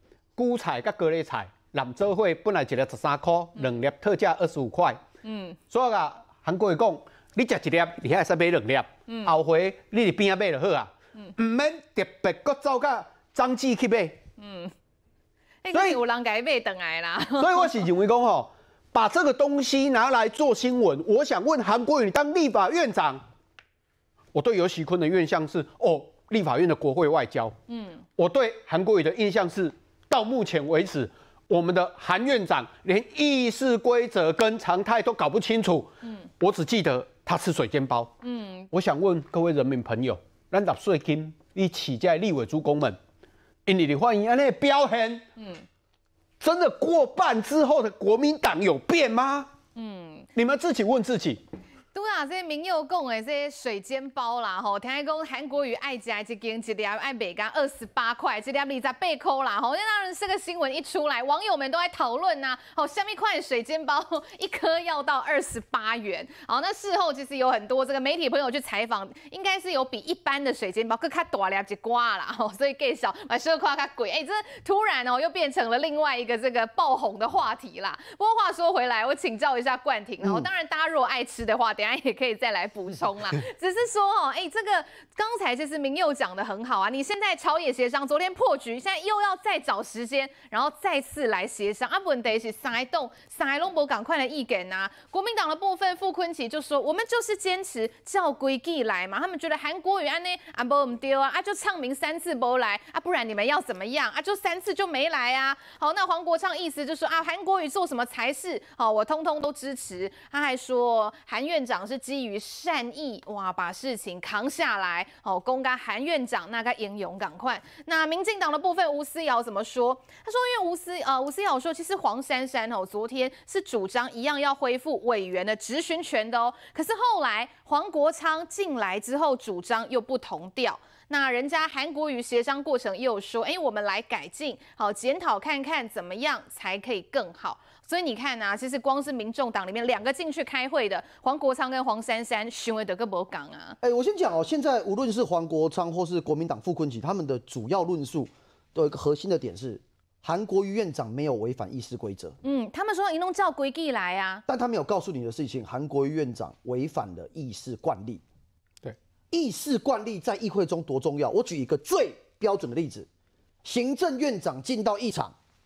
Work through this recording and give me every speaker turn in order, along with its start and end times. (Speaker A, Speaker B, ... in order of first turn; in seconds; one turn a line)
Speaker A: 0.4-5.0
Speaker B: 5.2-5.6
Speaker A: 5.7-14.2
Speaker B: 9.1-9.3
Speaker B: 14.4-14.7
Speaker B: 15.6-17.7
Speaker A: 15.7-16.0
Speaker A: 17.4-23.2
Speaker A: 24.3-27.6
Speaker B: 27.7-28.0
Speaker A: 28.2-38.1
Speaker B: 38.2-38.7
Speaker A: 38.7-43.0
Speaker A: 43.6-45.2
Speaker B: 45.4-45.6
Speaker A: 46.4-49.5
Speaker B: 49.7-50.3
Speaker A: 50.3-51.4
Speaker B: 51.9-143.8
Speaker C: 143.8-152.3
Speaker B: 152.4-154.4
Speaker C: 154.5-158.2
Speaker C: 159.3-163.1
Speaker C: 163.6-165.3